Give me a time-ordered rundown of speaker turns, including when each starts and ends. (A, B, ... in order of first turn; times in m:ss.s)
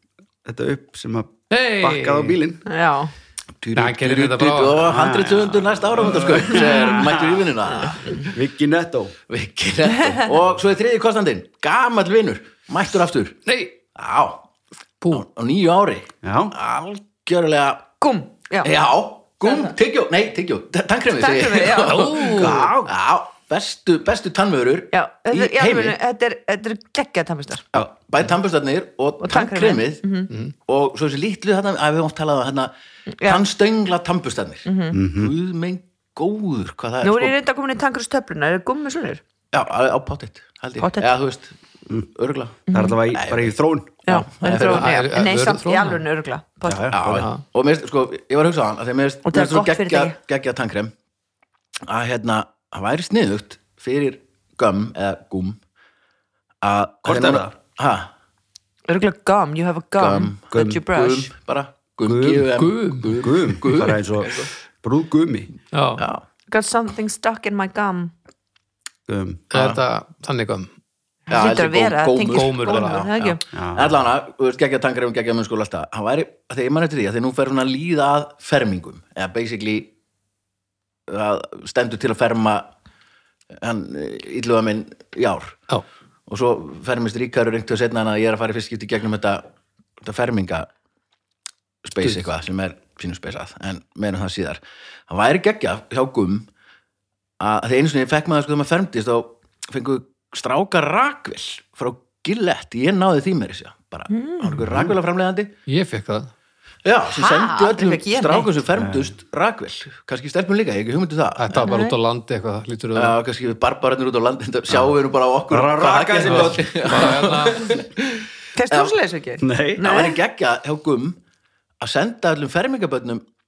0:00.4-0:02.6 A
0:01.5-0:02.4 B
0:02.7-0:03.1 C
0:03.6-0:08.3 D
0:03.8-0:05.0 B
0:04.9-0:07.3 A
0:06.5-0:07.1 C
0:08.2-0:09.2 A
0:09.3-0:13.4 D
0:13.5-0:13.8 B
0:14.0-0:14.4 D
0:15.1-0:17.9 D
0:16.2-0:16.5 A
0:18.0-0:18.7 C
0:18.6-0:26.0 D
0:19.4-0:19.7 C
0:21.1-0:22.5 C
0:21.9-0:22.5 B
0:22.4-0:22.9 A
0:24.9-0:27.6 C
0:27.7-0:30.1 D
0:29.2-0:30.3 C
0:30.7-0:32.7 D
0:33.1-0:33.4 C
0:33.2-0:37.4 D
0:34.6-0:35.0 C
0:34.9-0:35.3 A
0:37.0-0:39.2 C
0:39.5-0:43.5 D
0:40.8-0:41.1 C
0:42.7-0:43.0 C
0:42.7-0:44.0 A
0:44.0-0:45.0 D
0:44.1-0:46.9 C
0:44.5-0:46.0 B
0:46.7-0:47.3 A
0:46.9-0:50.9 D
0:47.0-0:47.4 B
0:49.2-0:50.2 C
0:51.9-0:55.6 D
0:56.6-0:58.1 D
0:57.0-0:57.5 A
0:58.9-1:01.3 C
1:00.0-1:04.5 D
1:00.5-1:00.8 A
1:02.0-1:02.5 A
1:02.6-1:03.1 B
1:03.2-1:05.5 A
1:05.7-1:06.1 B
1:06.0-1:06.2 D
1:06.5-1:08.1 C
1:09.1-1:09.4 A
1:09.5-1:10.7 B
1:09.5-1:09.8 D
1:11.3-1:13.4 C
1:11.3-1:19.9 D
1:12.3-1:13.1 B
1:13.5-1:14.0 A
1:21.1-1:22.7 D
1:23.6-1:25.6 D
1:26.3-1:29.4 D
1:30.0-1:30.7 D
1:31.8-1:36.5 D
1:37.4-1:45.5 D
1:44.1-1:44.6 C
1:44.6-1:44.9 A
1:45.7-1:46.3 B
1:46.8-1:51.7 D
1:47.1-1:48.5 C
1:48.7-1:49.1 A
1:51.4-1:53.2 B
1:51.5-1:52.0 C
1:52.9-1:58.9 D
1:55.5-1:57.1 A
1:56.2-1:57.8 B
1:58.6-2:00.2 C
1:59.4-1:59.9 A
1:59.8-2:01.2 D
2:01.8-2:03.2 D